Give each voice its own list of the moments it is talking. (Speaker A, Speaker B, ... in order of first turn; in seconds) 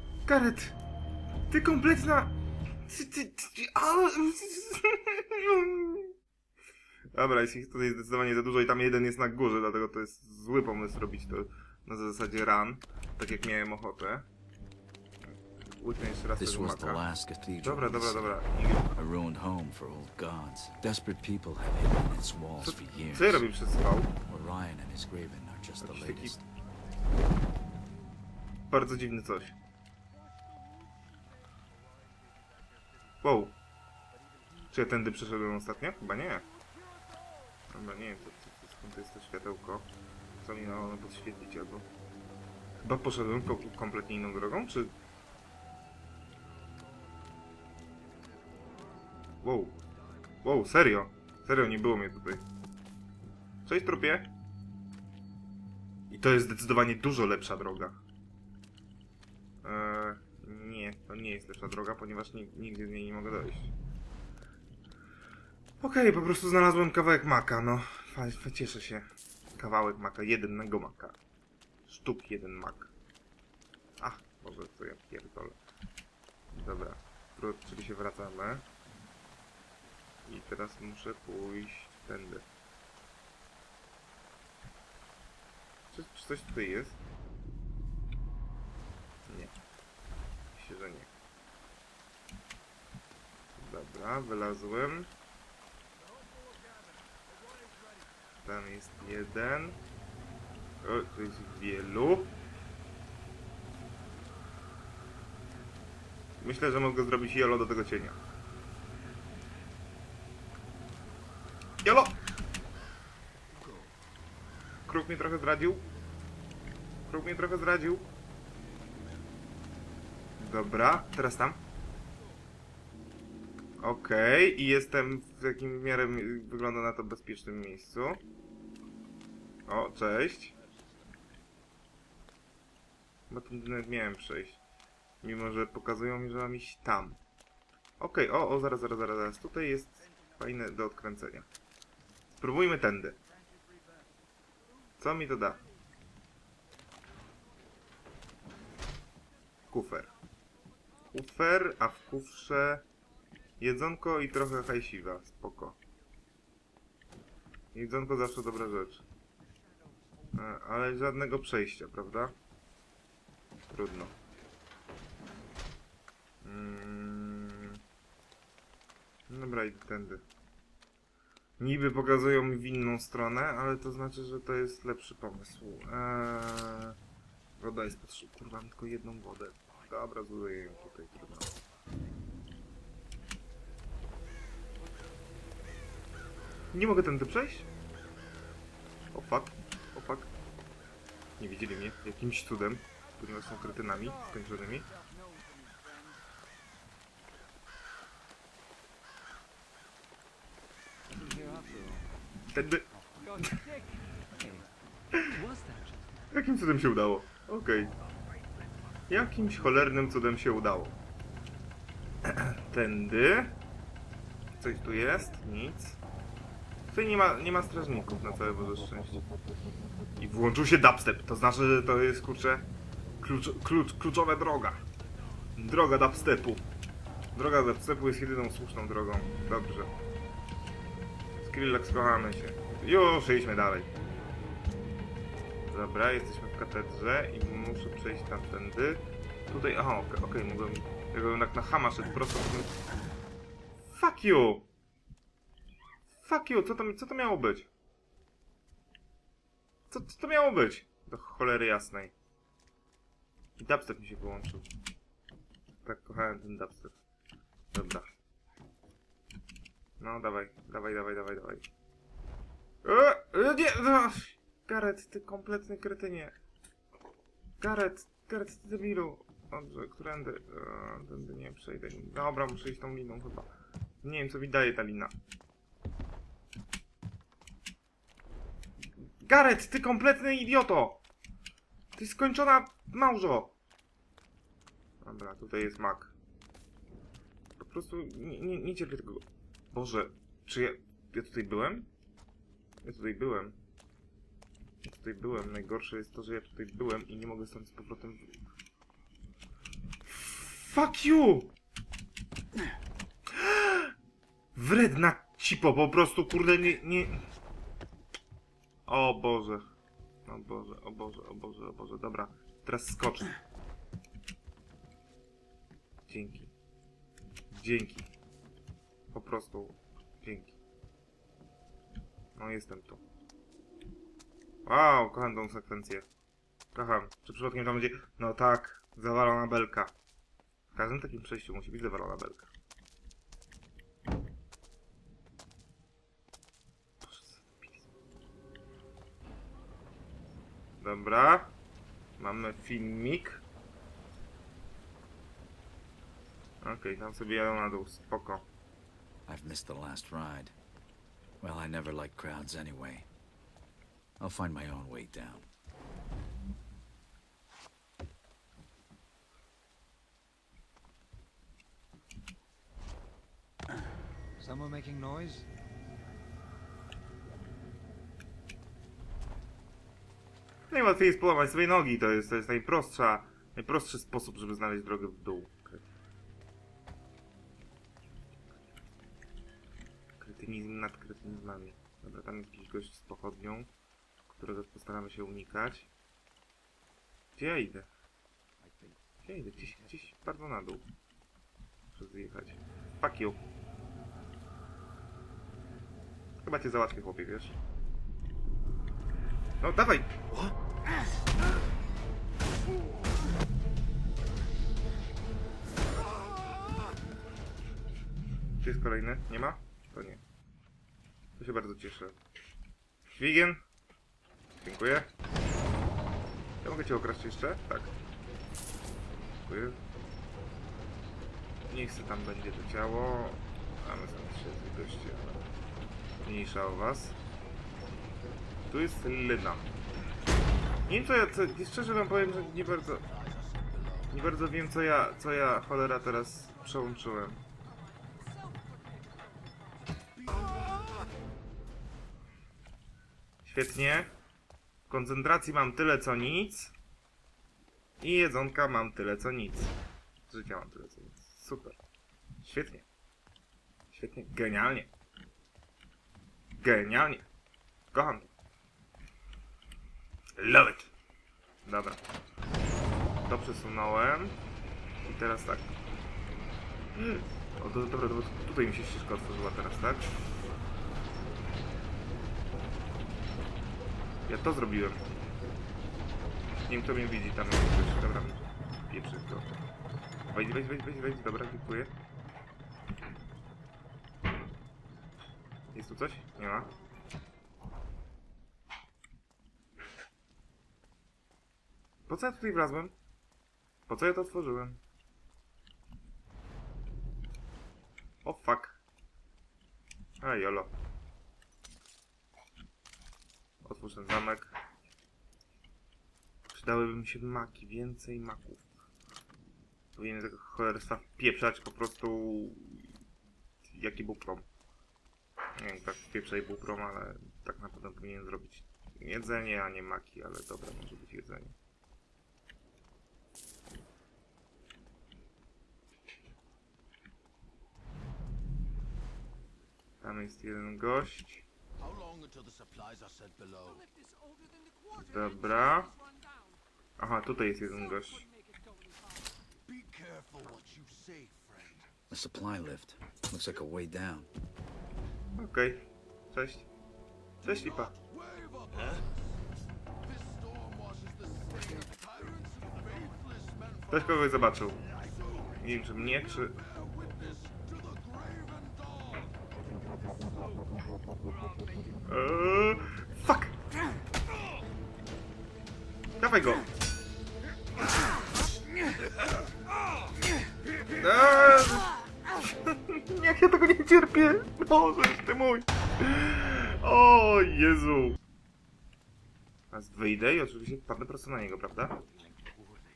Speaker A: 0.3-0.7, 1.5-6.1, 7.1-14.3, 15.8-17.0, 17.6-19.0, 22.6-24.1, 25.8-26.3, 28.7-29.6, 33.2-33.5, 34.7-36.4, 37.7-39.9, 40.4-41.9, 42.8-44.9, 49.4-49.7, 50.4-52.4, 53.6-54.3, 56.1-58.0, 59.6-63.7, 65.8-71.2, 71.9-72.9, 74.0-75.6, 76.5-78.7, 80.2-82.5, 85.9-87.0, 89.3-89.5, 90.5-91.1, 93.5-95.1, 98.4-99.8, 100.8-102.3, 106.4-108.2, 111.8-112.1, 114.9-115.8, 117.1-118.1, 120.4-121.6, 123.8-128.2, 129.7-130.5, 133.3-134.6, 135.2-137.2, 138.0-141.5, 142.4-143.2, 145.0-145.6, 149.7-150.1, 151.1-152.8, 153.6-155.8, 157.7-159.0, 160.3-162.3, 163.7-164.1, 166.4-167.8, 169.3-170.2, 171.6-177.0, 177.6-181.5, 186.7-187.7, 189.1-190.3, 191.4-194.9, 202.5-202.8, 205.1-205.4, 206.3-207.9, 209.1-210.9, 212.2-213.6, 214.6-216.0, 216.9-219.2, 220.2-222.7, 223.2-224.8, 225.6-226.7, 227.3-229.9, 231.4-233.9, 235.7-242.8, 243.9-244.7, 246.2-247.7, 249.9-252.1, 253.6-254.7, 255.8-256.9, 257.7-258.1, 260.0-261.6, 262.8-266.3, 267.6-273.5, 274.0-275.1, 279.2-281.0, 281.9-283.6, 285.0-286.1, 287.6-291.9, 292.8-293.6, 294.8-298.3, 300.1-301.5, 303.3-303.9, 304.5-307.2, 308.9-309.6, 310.3-313.3, 316.1-316.5, 317.5-318.1, 319.1-320.6, 322.4-323.0, 324.6-326.1, 326.7-329.9, 330.7-332.5, 337.0-337.9, 340.8-341.5, 342.2-343.4, 346.6-348.4, 370.7-375.8, 380.2-383.7, 384.3-385.9, 387.4-387.9, 389.2-390.9, 391.9-393.4, 396.4-397.6, 399.6-400.2, 408.6-410.2, 411.4-412.2, 413.1-413.6, 414.6-415.1, 416.6-417.9, 419.4-419.8, 421.7-425.4, 426.2-427.1, 428.7-429.7, 430.9-433.0, 434.1-437.4, 443.4-444.1, 444.9-446.7, 448.0-449.7, 450.3-451.8, 452.4-452.8, 453.9-454.9, 456.6-457.3, 457.9-458.3, 460.4-460.9, 461.6-462.0, 463.2-464.4, 465.0-465.7, 466.9-470.1, 474.3-475.0, 476.7-479.6, 480.3-481.9, 485.7-486.7, 492.1-492.9, 493.9-494.8, 498.2-498.8, 500.2-500.7, 503.6-504.5, 506.5-508.6, 509.9-512.9, 513.6-514.5, 515.5-521.5, 530.0-531.4, 534.9-535.9, 537.0-538.2, 545.4-546.7, 547.4-547.9, 553.9-554.8, 555.6-556.5, 562.1-563.5, 566.2-566.7, 571.0-571.9, 572.6-578.2, 579.7-582.0
Speaker B: 16.3-18.4, 18.9-23.4, 24.3-26.4, 349.2-350.5, 351.4-353.1, 354.2-355.5, 542.1-544.3
Speaker C: 30.3-33.0, 36.8-37.2, 46.6-47.0, 48.2-49.0, 96.0-98.2, 143.5-144.0, 194.9-196.2, 432.1-434.1, 440.1-440.6, 531.8-533.9, 539.6-541.9, 547.5-549.4, 550.0-559.3
Speaker D: 201.1-202.1, 203.2-203.6, 204.4-204.6, 205.3-206.2, 364.4-365.4